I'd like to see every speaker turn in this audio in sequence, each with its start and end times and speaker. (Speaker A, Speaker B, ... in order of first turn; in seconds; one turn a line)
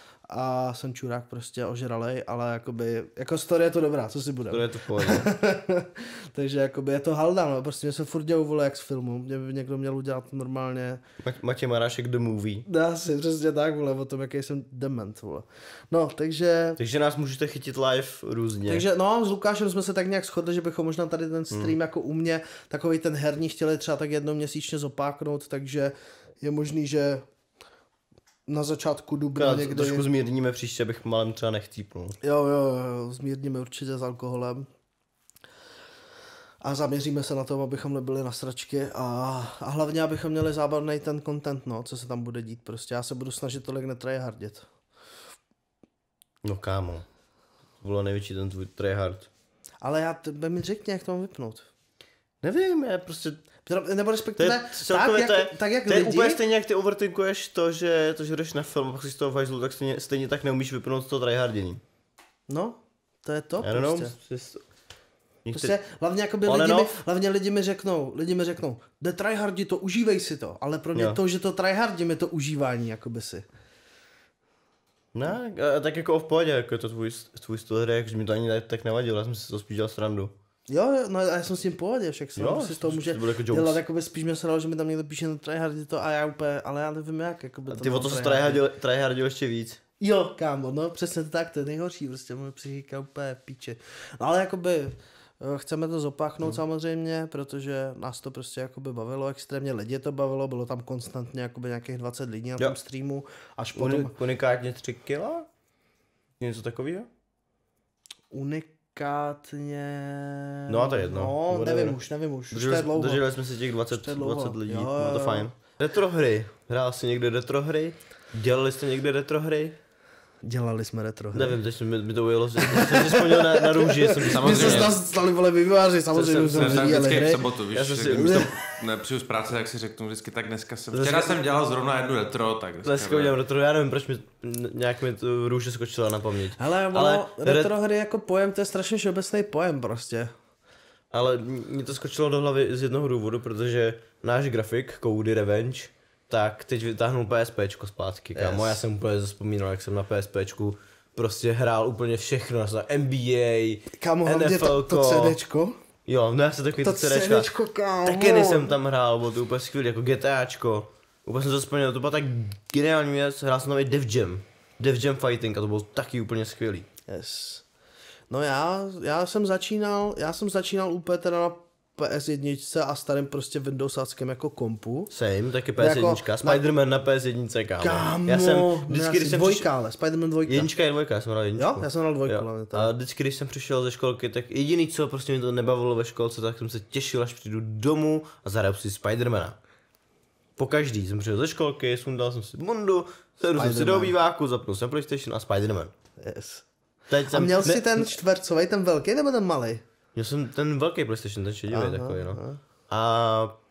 Speaker A: 0.3-11.0
Speaker B: 4.5-5.3
Speaker B: 11.2-12.7
Speaker A: 12.7-16.8
Speaker B: 16.8-18.8
Speaker A: 18.7-27.2
Speaker A: 28.5-30.1
Speaker B: 29.4-32.2
Speaker A: 32.2-34.7
Speaker A: 36.6-44.6
Speaker B: 46.4-47.0
Speaker B: 47.8-49.3
Speaker A: 49.8-51.7
Speaker B: 52.4-53.4
Speaker A: 53.6-56.4
Speaker B: 54.4-61.8
Speaker A: 62.5-64.1
Speaker B: 63.6-64.6
Speaker B: 65.4-65.7
Speaker A: 65.5-73.4
Speaker B: 66.5-66.9
Speaker B: 75.1-80.3
Speaker A: 80.7-88.6
Speaker B: 82.3-83.8
Speaker B: 87.7-89.8
Speaker A: 90.0-104.1
Speaker B: 103.7-105.5
Speaker B: 106.4-107.1
Speaker A: 108.3-113.2
Speaker B: 110.7-112.0
Speaker B: 112.5-119.8
Speaker A: 113.9-115.5
Speaker A: 120.4-121.6
Speaker B: 121.3-124.9
Speaker A: 122.6-127.4
Speaker C: 124.2-124.9
Speaker B: 126.1-127.0
Speaker C: 126.4-133.3
Speaker B: 127.7-128.5
Speaker A: 128.2-128.4
Speaker B: 130.9-131.3
Speaker B: 132.8-137.7
Speaker A: 136.6-140.3
Speaker B: 141.1-155.4
Speaker A: 148.3-148.8
Speaker A: 154.0-155.8
Speaker B: 156.1-157.5
Speaker A: 156.8-158.7
Speaker B: 158.0-166.9
Speaker A: 167.1-167.6
Speaker A: 168.3-175.1
Speaker B: 175.1-179.7
Speaker A: 175.8-176.6
Speaker A: 177.8-180.7
Speaker B: 180.4-189.6
Speaker A: 181.6-182.9
Speaker B: 190.6-195.9
Speaker A: 193.6-194.2
Speaker A: 196.2-196.7
Speaker B: 197.1-198.1
Speaker A: 197.3-199.8
Speaker B: 200.1-203.6
Speaker A: 201.7-202.6